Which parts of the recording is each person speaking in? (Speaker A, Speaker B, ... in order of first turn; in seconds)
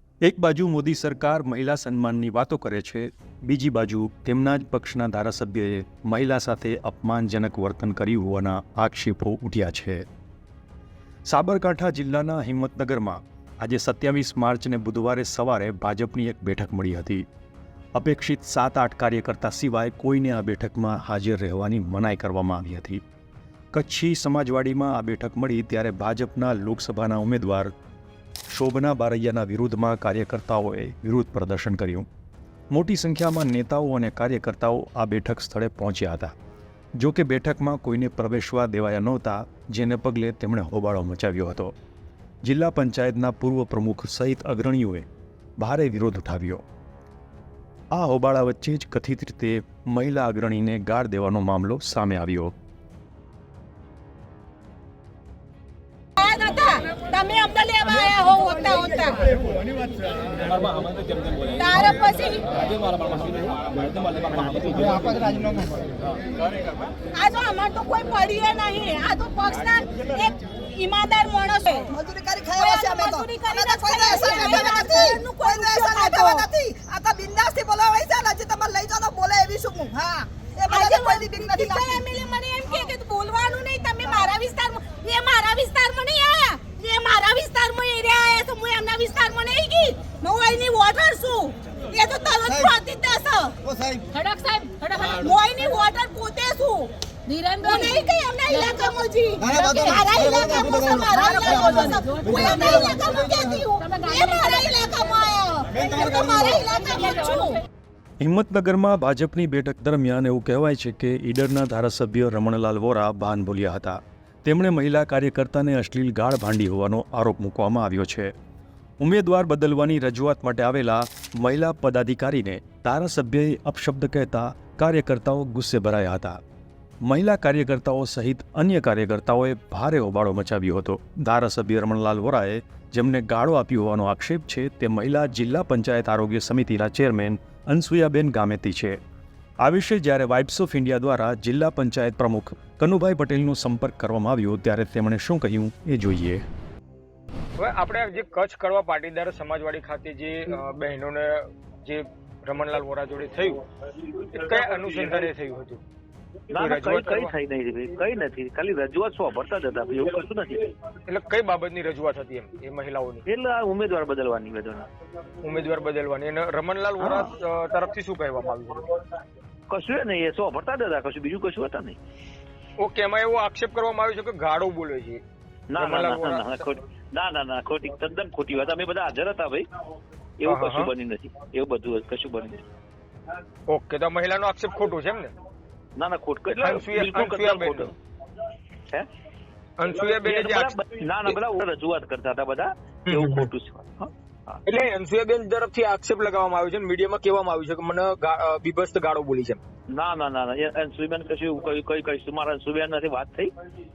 Speaker A: 0.2-10.0, 11.3-17.2, 18.0-23.0, 23.7-27.7, 28.5-32.1, 32.7-36.3, 37.0-41.7, 42.5-45.1, 45.6-46.6, 47.9-52.5, 108.2-118.3, 119.0-126.4, 127.1-139.0, 139.6-146.4
Speaker B: 56.2-59.2, 61.5-62.6, 67.1-71.9, 72.6-76.5, 80.7-93.6, 94.2-107.6
Speaker C: 71.9-82.0
Speaker D: 147.6-153.6, 154.3-155.8, 156.6-157.3, 161.1-163.2, 165.4-168.8, 172.8-175.2, 175.8-176.4, 180.5-180.9, 183.7-185.3, 186.6-187.9, 189.8-190.7, 194.8-199.6
Speaker E: 156.5-160.7, 163.3-164.9, 167.0-167.3, 169.7-172.0, 175.7-179.7, 180.4-182.6, 186.0-187.9, 190.1-194.6, 199.9-203.5